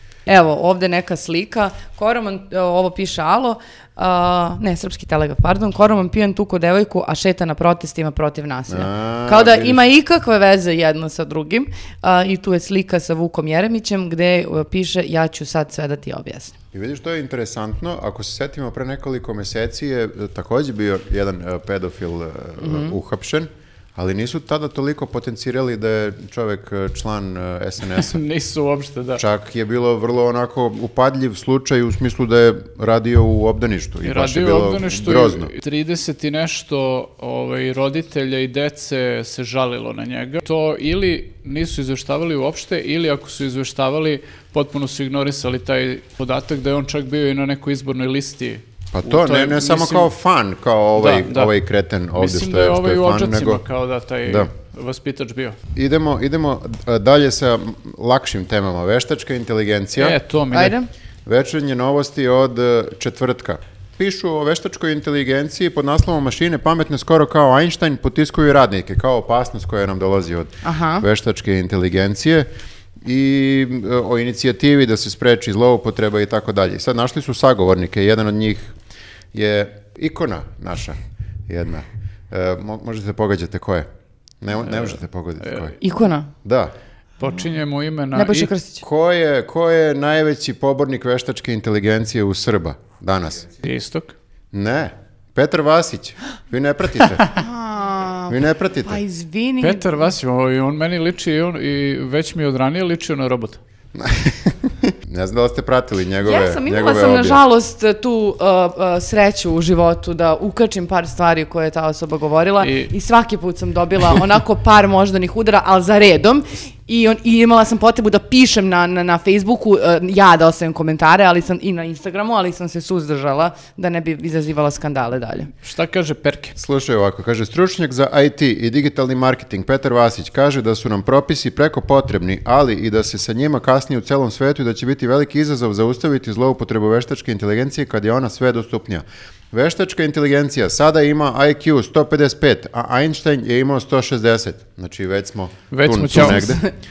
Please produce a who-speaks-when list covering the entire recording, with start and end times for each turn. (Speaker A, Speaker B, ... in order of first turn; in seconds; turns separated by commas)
Speaker A: 0.3-16.6, Speaker B: 8.7-9.8, Speaker B: 16.7-28.2, Speaker A: 22.6-23.0, Speaker C: 28.0-29.2, Speaker B: 29.2-35.5, Speaker C: 34.0-50.1, Speaker B: 48.9-53.6, Speaker C: 51.0-51.5, Speaker C: 52.2-55.6, Speaker B: 55.8-60.2, Speaker C: 60.0-60.8, Speaker A: 60.5-60.9, Speaker B: 61.3-72.5, Speaker A: 70.6-71.0, Speaker B: 73.0-78.8, Speaker B: 79.3-83.9, Speaker B: 84.4-85.8, Speaker A: 85.8-86.3, Speaker B: 86.4-86.7, Speaker C: 87.2-88.5, Speaker A: 88.1-88.8, Speaker B: 88.8-93.5, Speaker C: 93.6-94.1, Speaker B: 94.5-97.3, Speaker A: 97.3-100.1, Speaker B: 98.3-99.0, Speaker C: 99.6-103.6, Speaker B: 104.0-107.4, Speaker A: 106.2-125.5, Speaker C: 112.6-112.9, Speaker C: 125.6-126.6, Speaker B: 126.6-146.6, Speaker C: 145.7-146.6, Speaker A: 146.4-146.7